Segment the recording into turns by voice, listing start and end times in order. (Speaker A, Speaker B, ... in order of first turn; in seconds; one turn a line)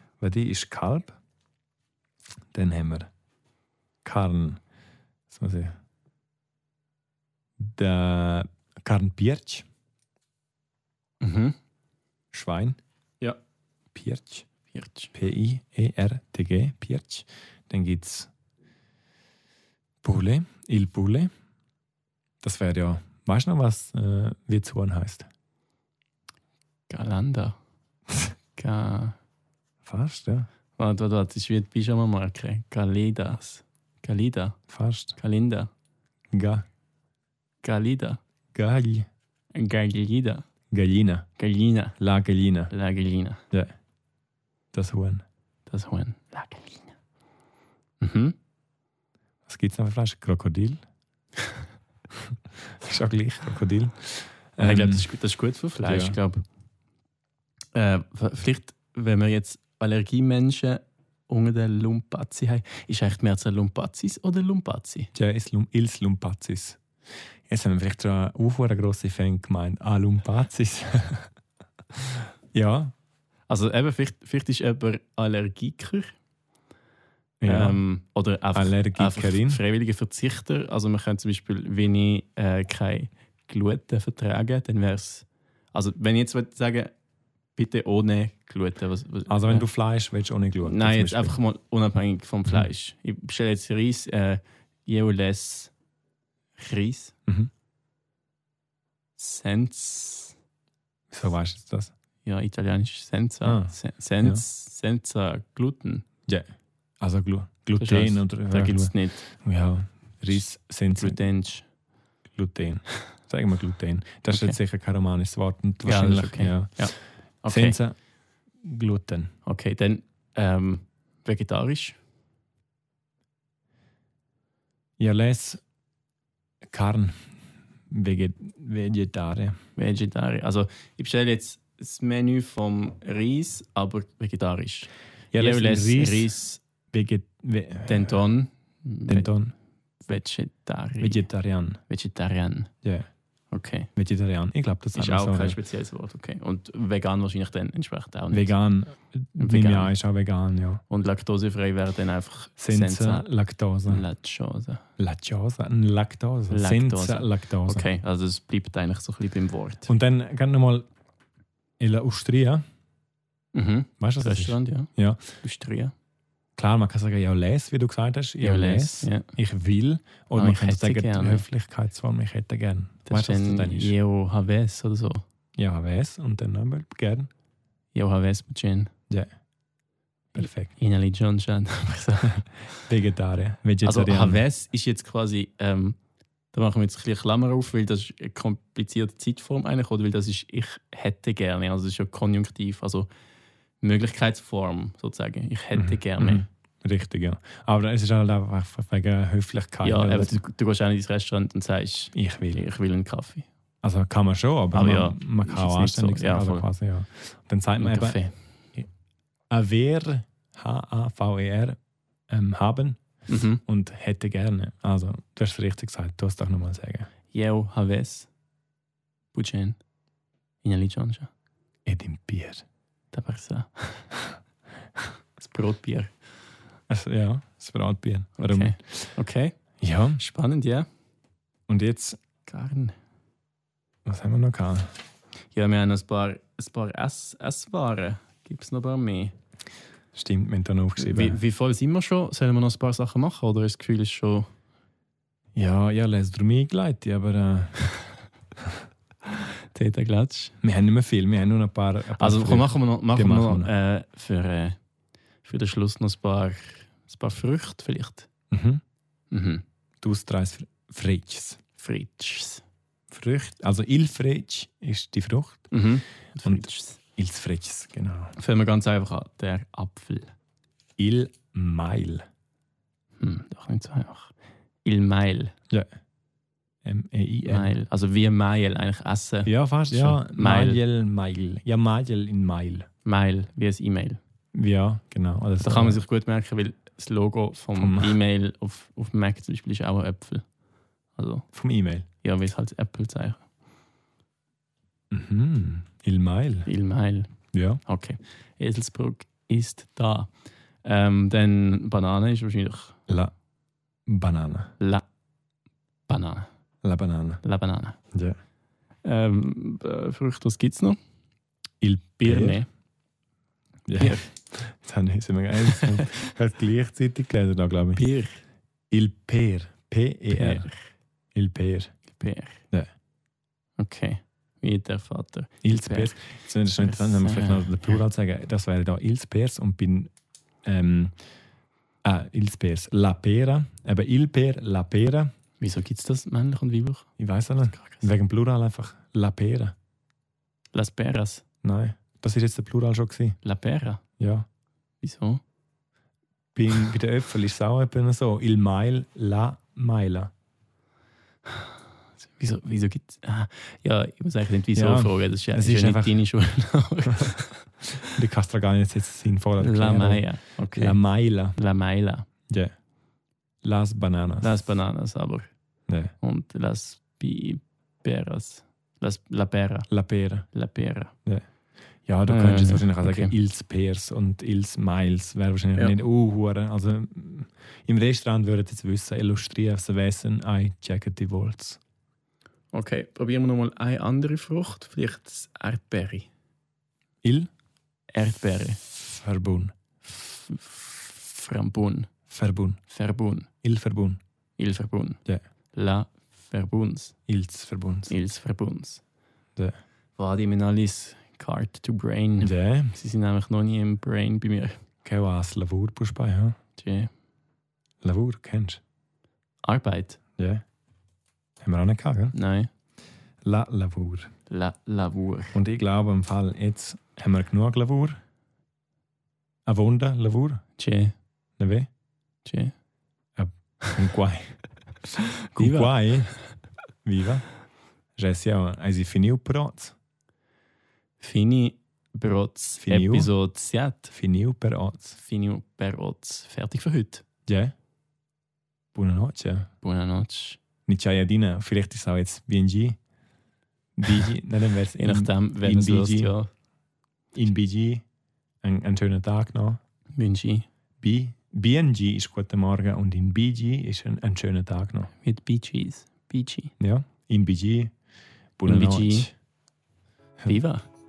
Speaker A: 0.2-1.1
Speaker A: 2.5-3.1
Speaker A: 4.0-4.6
Speaker A: 5.3-5.7
Speaker A: 7.6-9.7
Speaker B: 11.2-11.6
Speaker A: 12.3-12.8
Speaker A: 13.9-14.4
Speaker B: 14.7-15.1
Speaker A: 15.1-18.3
Speaker A: 20.0-21.3
Speaker A: 22.4-25.3
Speaker B: 26.9-27.6
Speaker B: 28.6-29.2
Speaker A: 29.8-30.5
Speaker B: 30.8-34.6
Speaker A: 34.7-35.2
Speaker B: 35.2-35.7
Speaker A: 36.3-36.6
Speaker B: 37.6-38.2
Speaker A: 38.5-39.1
Speaker B: 39.5-40.4
Speaker A: 40.7-41.2
Speaker B: 41.4-42.0
Speaker A: 42.0-42.7
Speaker B: 42.7-43.4
Speaker A: 44.7-45.2
Speaker B: 45.7-46.9
Speaker B: 48.0-48.4
Speaker A: 49.5-50.8
Speaker A: 52.2-55.1
Speaker B: 54.6-56.4
Speaker A: 55.8-56.2
Speaker B: 57.7-65.1
Speaker A: 65.1-66.8
Speaker A: 67.5-71.3
Speaker A: 71.9-72.9
Speaker B: 73.5-76.1
Speaker A: 77.4-77.8
Speaker B: 77.4-86.9
Speaker A: 78.5-79.6
Speaker B: 87.5-89.7
Speaker A: 89.3-91.3
Speaker B: 90.6-95.7
Speaker B: 96.6-97.1
Speaker B: 99.2-100.3
Speaker A: 101.1-101.9
Speaker B: 102.2-106.0
Speaker A: 103.4-103.7
Speaker A: 107.0-111.2
Speaker B: 107.8-109.3
Speaker B: 111.0-111.6
Speaker A: 112.3-116.9
Speaker B: 114.3-114.6
Speaker B: 115.8-117.8
Speaker A: 117.5-118.0
Speaker A: 118.6-119.3
Speaker B: 119.4-122.0
Speaker A: 125.0-125.6
Speaker A: 126.6-127.2
Speaker A: 127.9-129.6
Speaker B: 129.8-136.6
Speaker A: 135.3-136.3
Speaker A: 136.9-138.2
Speaker B: 137.9-139.3
Speaker A: 139.1-139.5
Speaker B: 140.1-141.2
Speaker A: 141.0-141.8
Speaker B: 141.9-142.7
Speaker B: 143.5-143.9
Speaker A: 143.9-145.6
Speaker B: 144.9-148.5
Speaker A: 148.3-150.8
Speaker B: 149.4-149.9
Speaker B: 150.9-153.2
Speaker A: 152.6-154.1
Speaker B: 153.9-154.8
Speaker A: 155.0-157.9
Speaker B: 156.5-159.9
Speaker A: 159.9-160.9
Speaker A: 161.8-162.6
Speaker B: 163.5-165.9
Speaker A: 164.0-165.2
Speaker A: 166.6-173.9
Speaker B: 168.4-169.3
Speaker B: 170.4-171.4
Speaker B: 173.1-175.2
Speaker A: 175.6-177.3
Speaker B: 177.9-178.9
Speaker A: 180.3-180.7
Speaker B: 180.8-182.4
Speaker A: 182.8-184.4
Speaker B: 183.8-186.0
Speaker B: 186.5-193.1
Speaker B: 193.8-196.4
Speaker A: 195.7-200.4
Speaker B: 199.8-203.5
Speaker A: 202.1-202.6
Speaker A: 203.8-208.2
Speaker B: 204.7-206.7
Speaker B: 207.8-208.3
Speaker A: 209.5-211.8
Speaker A: 212.3-213.0
Speaker B: 213.3-213.6
Speaker A: 213.6-217.1
Speaker B: 217.3-218.3
Speaker B: 219.3-219.8
Speaker B: 220.6-221.3
Speaker A: 221.8-222.6
Speaker B: 223.1-224.1
Speaker B: 225.4-226.1
Speaker A: 226.9-229.1
Speaker B: 228.4-229.6
Speaker A: 229.8-230.2
Speaker B: 230.2-230.9
Speaker A: 231.7-232.2
Speaker B: 232.4-232.9
Speaker A: 234.0-234.9
Speaker B: 235.5-239.3
Speaker A: 240.1-241.4
Speaker B: 241.0-244.5
Speaker A: 245.5-247.9
Speaker B: 249.4-250.6
Speaker A: 250.6-253.7
Speaker B: 252.2-254.8
Speaker B: 255.4-258.3
Speaker A: 258.5-258.8
Speaker B: 259.3-259.6
Speaker A: 260.0-261.6
Speaker B: 261.8-262.6
Speaker A: 263.1-265.7
Speaker B: 265.7-267.0
Speaker A: 266.4-268.3
Speaker B: 268.4-270.3
Speaker A: 271.0-272.2
Speaker B: 273.2-274.3
Speaker B: 274.8-275.5
Speaker A: 276.8-277.7
Speaker B: 277.4-280.8
Speaker A: 279.4-282.9
Speaker B: 283.0-284.2
Speaker A: 284.5-286.0
Speaker B: 285.6-290.4
Speaker A: 287.8-288.1
Speaker B: 291.1-291.4
Speaker A: 291.5-292.1
Speaker B: 292.2-293.4
Speaker A: 295.1-296.7
Speaker B: 296.6-297.3
Speaker A: 297.5-297.8
Speaker B: 297.8-300.3
Speaker B: 300.8-303.0
Speaker A: 304.1-304.7
Speaker B: 304.8-305.0
Speaker B: 306.1-306.5
Speaker A: 306.8-307.4
Speaker B: 307.4-308.0
Speaker B: 309.0-311.0
Speaker A: 311.8-312.6
Speaker B: 312.2-312.7
Speaker A: 313.9-318.0
Speaker B: 313.9-314.2
Speaker B: 315.8-316.1
Speaker B: 317.9-318.4
Speaker A: 318.9-320.7
Speaker B: 320.3-320.8
Speaker A: 321.3-321.9
Speaker B: 322.1-322.6
Speaker B: 323.8-326.2
Speaker A: 325.6-330.1
Speaker B: 326.8-328.0
Speaker A: 330.6-331.1
Speaker A: 332.0-335.3
Speaker B: 335.6-337.1
Speaker A: 337.2-339.7
Speaker B: 337.7-338.1
Speaker B: 340.7-341.4
Speaker A: 341.6-343.4
Speaker B: 343.4-344.0
Speaker A: 344.2-344.4
Speaker B: 345.0-345.4
Speaker A: 346.5-350.3
Speaker B: 352.2-357.7
Speaker A: 354.7-356.2
Speaker A: 358.0-361.6
Speaker B: 359.6-361.0
Speaker B: 361.5-362.3
Speaker A: 363.6-364.7
Speaker B: 364.4-365.5
Speaker A: 365.9-366.1
Speaker B: 366.2-369.9
Speaker A: 369.9-370.5
Speaker B: 370.5-371.1
Speaker A: 372.0-381.8
Speaker B: 372.3-373.3
Speaker B: 382.7-386.3
Speaker A: 387.2-387.5
Speaker B: 388.1-388.8
Speaker A: 388.9-389.7
Speaker B: 390.0-392.1
Speaker A: 392.3-392.8
Speaker B: 392.9-393.5
Speaker A: 393.6-394.2
Speaker B: 394.6-395.2
Speaker B: 395.7-397.1
Speaker A: 397.3-398.1
Speaker B: 398.1-399.0
Speaker B: 400.2-404.8
Speaker A: 402.4-402.9
Speaker A: 405.0-406.6
Speaker B: 406.8-407.1
Speaker A: 408.0-408.8
Speaker B: 409.6-410.2
Speaker A: 410.4-410.6
Speaker A: 411.6-412.3
Speaker B: 412.3-412.7
Speaker A: 413.4-414.3
Speaker B: 414.5-415.6
Speaker A: 415.5-418.2
Speaker A: 419.6-420.6
Speaker B: 420.8-421.1
Speaker A: 421.6-421.9
Speaker B: 422.4-422.7
Speaker A: 423.4-424.6
Speaker B: 425.4-426.4
Speaker A: 425.6-426.3
Speaker A: 427.0-427.4
Speaker A: 428.2-429.9
Speaker B: 431.2-434.1
Speaker A: 432.8-433.3
Speaker A: 434.1-435.2
Speaker B: 435.2-437.2
Speaker A: 437.5-437.7
Speaker A: 438.9-439.7
Speaker B: 439.8-440.6
Speaker A: 440.9-443.0
Speaker A: 444.0-446.3
Speaker B: 445.0-446.5
Speaker A: 447.3-448.0
Speaker A: 448.6-449.8
Speaker B: 450.1-450.7
Speaker A: 451.0-455.1
Speaker B: 455.2-456.7
Speaker A: 456.8-457.9
Speaker A: 458.6-459.3
Speaker B: 458.6-459.3
Speaker B: 460.5-460.8